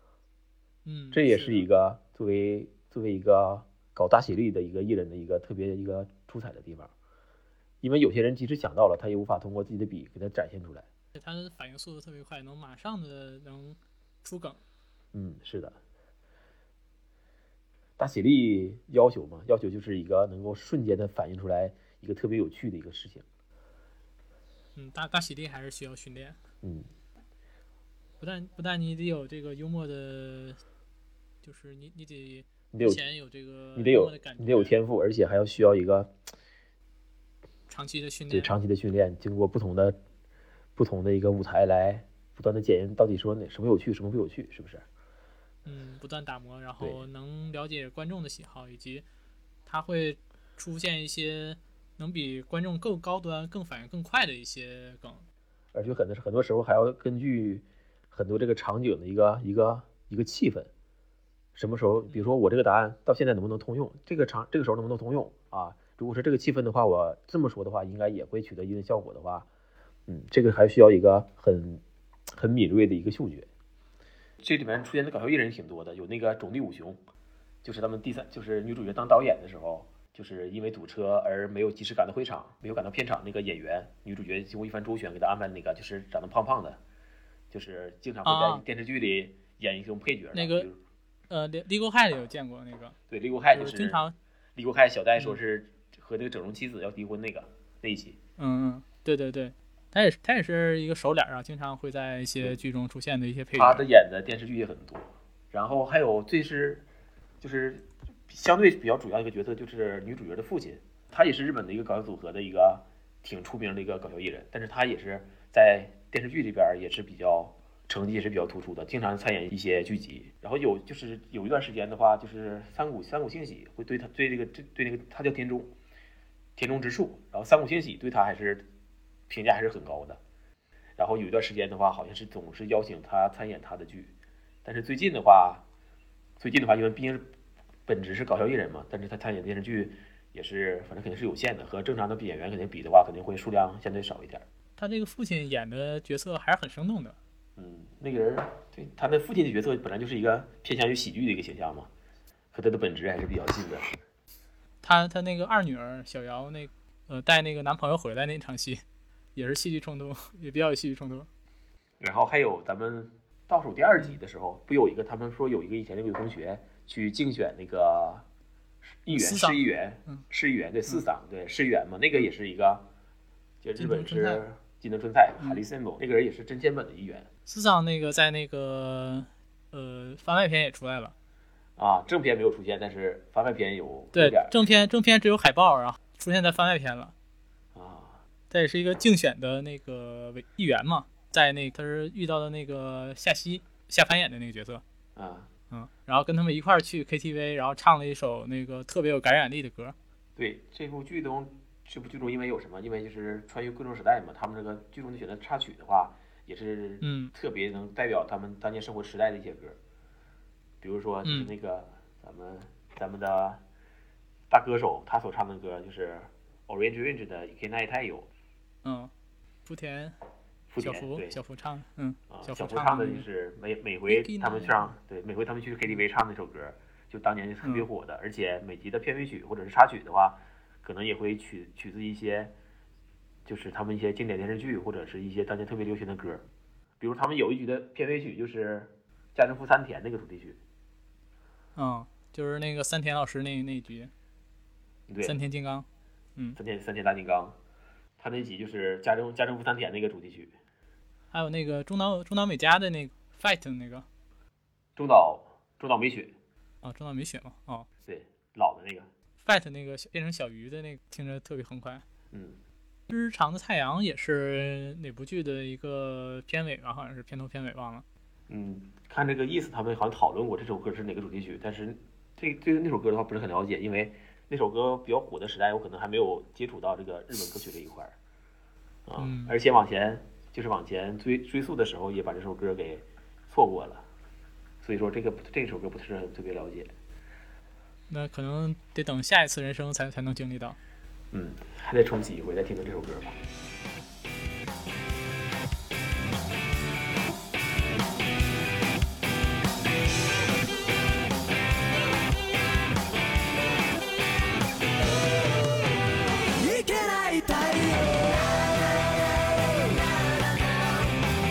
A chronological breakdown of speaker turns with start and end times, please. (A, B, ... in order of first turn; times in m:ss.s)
0:00.8-0:01.7 A
0:01.1-0:06.9 B
0:07.8-0:10.9 B
0:11.2-0:14.6 A
0:15.1-0:15.8 B
0:18.0-0:23.2 B
0:24.8-0:26.4 A
0:26.6-0:26.9 B
0:28.2-0:30.6 A
0:31.4-0:34.8 A
0:32.7-0:33.0 B
0:33.8-0:36.2 B
0:37.7-0:38.5 A
0:38.3-0:40.0 B
0:40.8-0:44.8 B
0:45.7-0:49.0 A
0:46.8-0:47.0 B
0:49.7-0:55.2 A
0:55.7-1:00.7 B
1:01.6-1:09.5 B
1:10.1-1:13.5 B
1:14.4-1:17.0 B
1:17.6-1:26.8 B
1:27.5-1:30.8 B
1:28.2-1:28.6 A
1:30.3-1:30.7 A
1:31.3-1:33.0 A
1:33.1-1:34.0 B
1:33.5-1:34.2 A
1:34.6-1:38.2 B
1:38.4-1:43.9 A
1:43.6-1:46.9 B
1:47.4-2:05.8 B
2:06.6-2:08.7 B
2:09.3-2:10.2 B
2:11.0-2:15.7 B
2:16.4-2:17.3 B
2:17.9-2:24.4 B
2:24.8-2:27.2 A
2:27.6-2:31.9 B
2:32.5-2:34.0 B
2:34.8-2:38.8 A
2:39.4-2:41.3 A
2:42.0-2:48.2 B
2:49.0-2:52.9 B
2:49.2-2:50.2 A
2:53.6-2:57.3 B
2:53.8-2:54.4 A
2:57.5-3:01.1 A
3:01.8-3:04.7 B
3:04.1-3:07.1 A
3:07.7-3:08.2 B
3:08.5-3:14.8 A
3:15.2-3:15.5 B
3:15.7-3:20.0 A
3:20.4-3:29.8 B
3:27.0-3:27.3 A
3:30.8-3:33.6 B
3:31.2-3:31.5 A
3:34.5-3:38.3 B
3:38.8-3:39.1 A
3:39.7-3:40.2 A
3:40.7-3:41.4 B
3:40.8-3:43.3 A
3:42.3-3:52.6 B
3:44.1-3:44.9 A
3:53.4-3:56.5 B
3:57.0-4:00.6 B
4:01.8-4:04.1 A
4:05.1-4:05.4 B
4:05.2-4:06.6 A
4:06.6-4:07.6 B
4:08.2-4:10.6 B
4:11.3-4:14.1 A
4:15.0-4:16.4 B
4:16.8-4:17.9 A
4:18.0-4:19.1 B
4:19.4-4:22.0 A
4:22.3-4:22.6 B
4:23.1-4:28.0 A
4:28.5-4:38.2 B
4:39.1-4:44.1 B
4:39.2-4:39.6 A
4:44.8-4:46.9 B
4:48.1-4:50.8 A
4:51.3-4:53.4 B
5:06.5-5:08.5 C